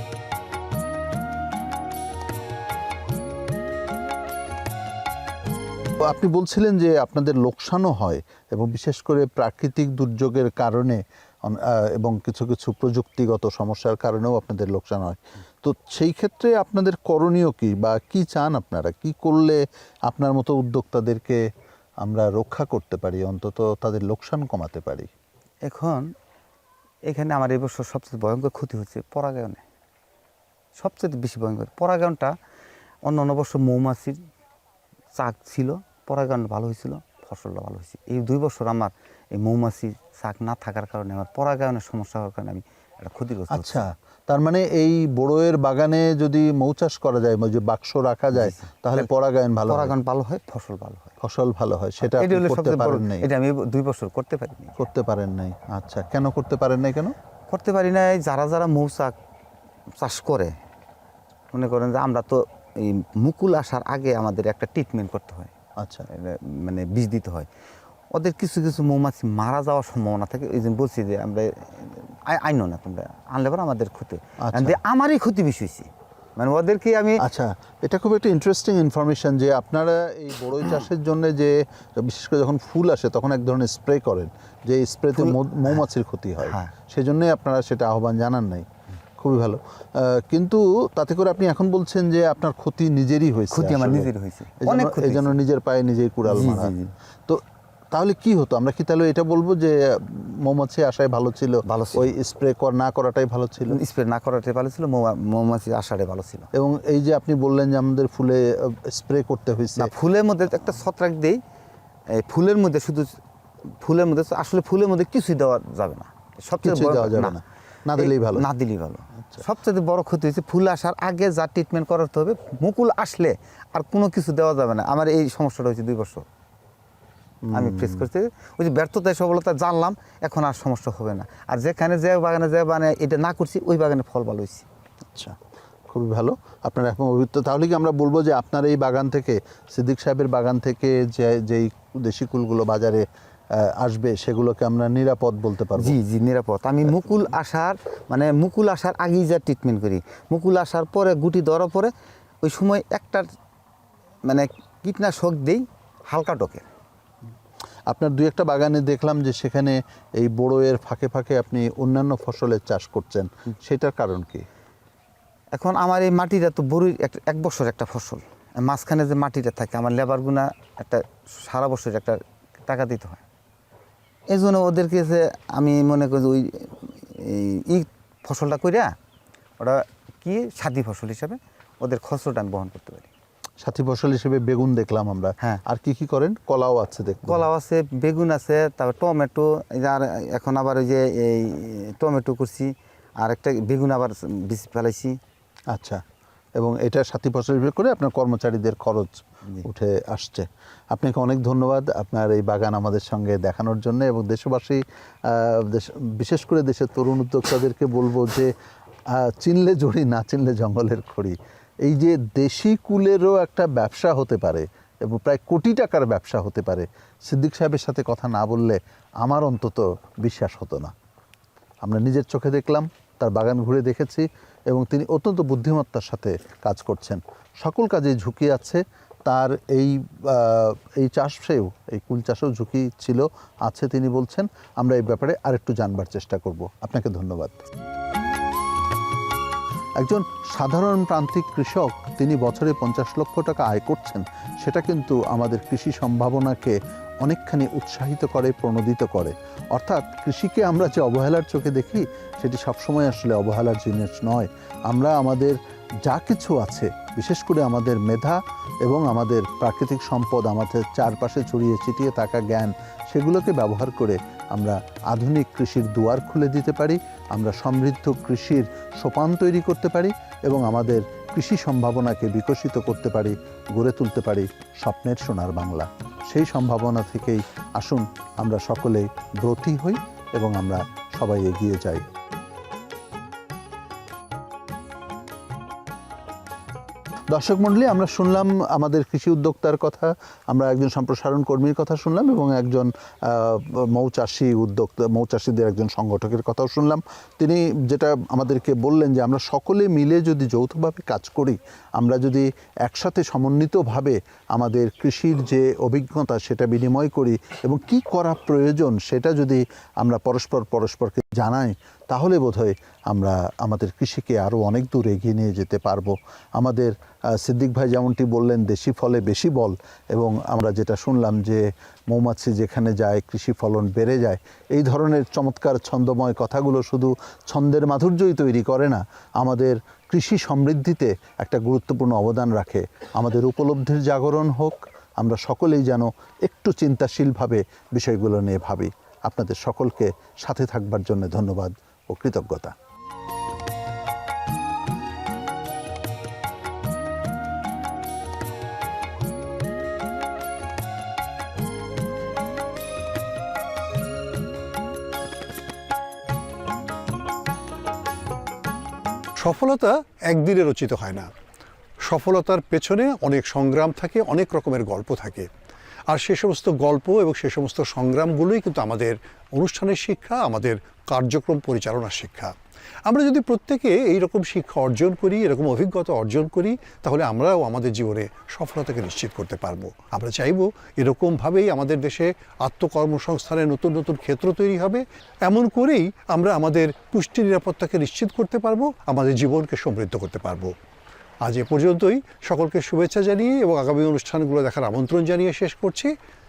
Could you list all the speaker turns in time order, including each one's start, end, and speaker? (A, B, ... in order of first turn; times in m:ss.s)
0:06.0-0:21.4 A
0:22.0-0:25.1 A
0:25.6-0:26.1 B
0:27.0-0:29.6 B
0:30.8-0:32.3 B
0:33.0-0:34.2 B
0:35.1-0:43.8 B
0:43.5-0:50.0 A
0:48.3-0:49.1 B
0:49.7-0:51.1 B
0:51.2-0:53.3 A
0:52.0-0:54.8 B
0:54.8-0:57.1 A
0:57.5-0:59.1 B
1:00.0-1:00.5 B
1:01.5-1:05.5 B
1:05.8-1:06.1 A
1:06.1-1:07.5 B
1:08.1-1:17.2 B
1:14.4-1:14.8 A
1:17.2-1:28.6 A
1:25.1-1:25.8 B
1:26.4-1:26.7 B
1:29.2-1:34.1 A
1:33.5-1:35.3 B
1:34.6-1:36.7 A
1:36.3-1:36.9 B
1:37.3-1:43.8 A
1:41.6-1:42.1 B
1:43.7-1:46.5 B
1:46.5-1:49.9 A
1:49.8-1:51.4 B
1:52.1-1:53.2 B
1:53.8-1:57.4 B
1:56.6-1:58.4 A
1:58.0-2:06.2 B
2:07.4-2:08.0 A
2:07.5-2:14.6 B
2:15.9-2:26.0 A
2:25.8-2:31.9 B
2:32.4-2:33.3 B
2:34.2-2:36.7 B
2:37.9-2:44.4 A
2:45.5-2:53.2 B
2:54.3-2:58.9 B
2:59.6-3:03.1 B
3:03.6-3:07.5 A
3:07.2-3:15.2 B
3:15.7-3:16.0 A
3:16.6-3:28.5 A
3:29.1-3:40.9 A
3:41.8-3:57.6 A
4:00.0-4:42.0 A
4:47.3-5:42.7 A
5:59.4-6:01.3 C
6:02.0-6:05.5 C
6:06.1-6:12.5 C
6:13.1-6:30.7 C
6:31.4-6:36.1 C